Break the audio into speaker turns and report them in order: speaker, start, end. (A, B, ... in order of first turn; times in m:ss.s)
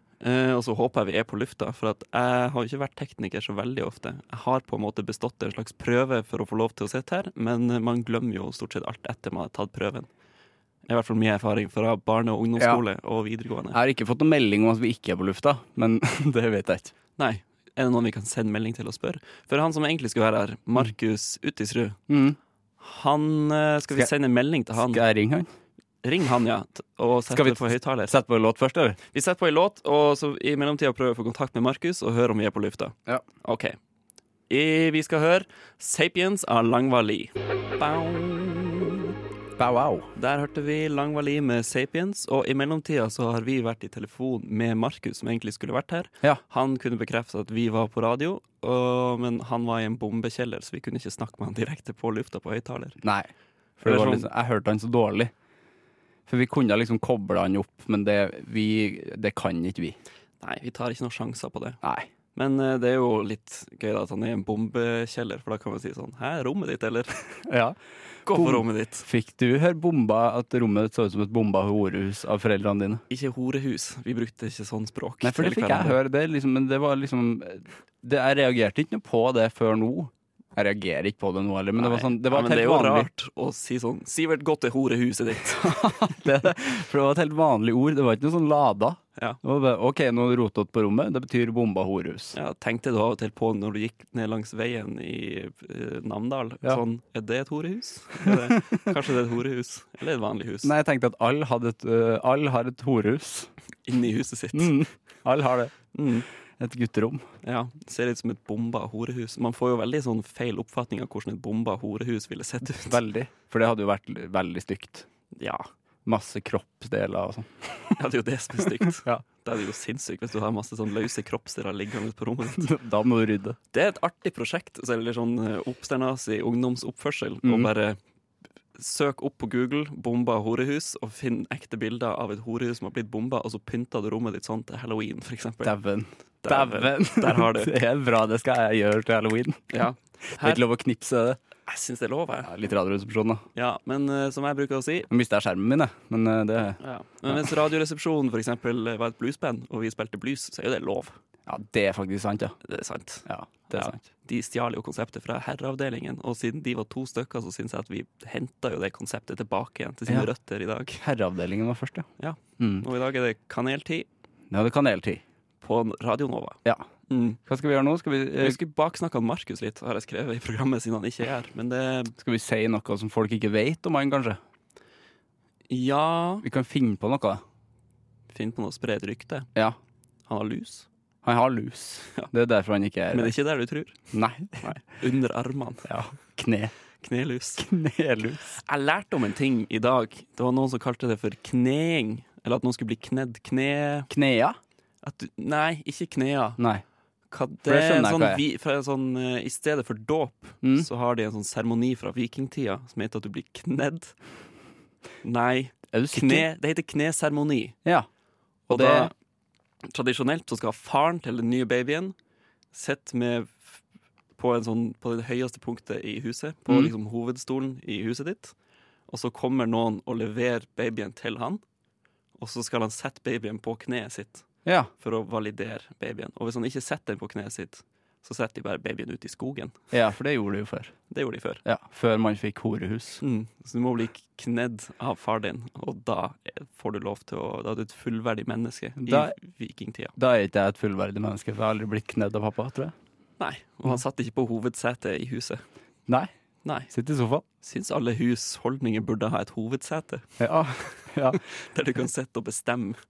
0:00.2-0:10.1 A
0:10.9-0:13.8 A
0:13.7-0:16.9 B
0:17.2-0:22.0 A
0:22.1-0:22.4 B
0:22.8-0:25.0 A
0:24.8-0:25.5 B
0:26.0-0:28.2 A
0:27.3-0:29.0 B
0:29.1-0:33.8 A
0:34.5-0:39.1 A
0:39.6-0:40.1 B
0:40.2-0:53.0 A
0:53.0-0:55.3 B
0:53.8-0:54.3 A
0:56.3-1:00.0 B
1:00.4-1:01.8 A
1:01.8-1:02.1 B
1:02.3-1:07.2 A
1:07.4-1:07.8 B
1:08.3-1:09.1 A
1:08.3-1:13.0 B
1:13.1-1:16.0 A
1:15.2-1:23.1 B
1:21.8-1:25.9 A
1:25.5-1:32.4 B
1:32.3-1:40.7 A
1:38.3-1:38.9 B
1:40.6-1:43.5 B
1:43.9-1:44.9 A
1:44.5-1:45.7 B
1:45.9-1:46.3 A
1:46.6-1:47.2 B
1:47.4-1:53.0 A
1:52.9-1:55.1 B
1:55.3-1:55.7 A
1:56.1-1:58.0 B
1:58.0-2:02.7 A
1:59.0-1:59.2 B
2:02.6-2:03.6 B
2:03.7-2:08.0 A
2:07.4-2:07.7 B
2:08.8-2:15.7 A
2:15.6-2:19.8 B
2:16.4-2:17.8 A
2:19.7-2:20.6 A
2:20.3-2:21.4 B
2:21.7-2:22.5 A
2:22.4-2:23.4 B
2:23.6-2:25.1 A
2:25.1-2:27.5 B
2:26.8-2:31.2 A
2:31.5-2:32.6 B
2:32.6-2:41.0 A
2:33.3-2:34.0 B
2:41.0-2:42.1 B
2:42.2-2:44.1 A
2:42.6-2:42.9 B
2:44.5-2:45.2 B
2:45.6-2:47.4 A
2:47.4-2:48.6 B
2:48.4-2:52.2 A
2:52.2-2:54.4 B
2:55.7-2:56.5 A
2:56.4-2:57.4 B
2:58.3-2:59.5 A
3:00.3-3:00.9 A
3:01.2-3:03.3 B
3:03.1-3:04.0 A
3:04.1-3:04.7 B
3:04.6-3:05.9 A
3:05.9-3:06.7 B
3:07.0-3:07.7 A
3:07.6-3:08.6 B
3:08.6-3:14.1 A
3:14.1-3:14.6 B
3:15.0-3:16.6 A
3:16.6-3:16.8 B
3:17.3-3:24.2 A
3:17.6-3:18.4 B
3:25.2-3:27.8 A
3:25.9-3:26.5 B
3:28.7-3:29.1 A
3:28.7-3:29.1 B
3:29.8-3:32.2 A
3:32.7-3:33.8 A
3:34.4-3:38.6 A
3:39.1-3:41.6 A
3:42.4-3:44.5 A
3:44.6-3:44.9 B
3:45.0-3:49.8 A
3:49.9-3:51.0 B
3:51.1-3:51.6 A
3:51.6-3:53.2 B
3:53.2-4:00.2 A
3:59.0-3:59.3 B
4:00.2-4:02.9 B
4:03.4-4:05.6 A
4:06.6-4:06.9 A
4:06.9-4:07.4 B
4:07.6-4:10.3 A
4:10.4-4:11.4 B
4:10.8-4:13.0 A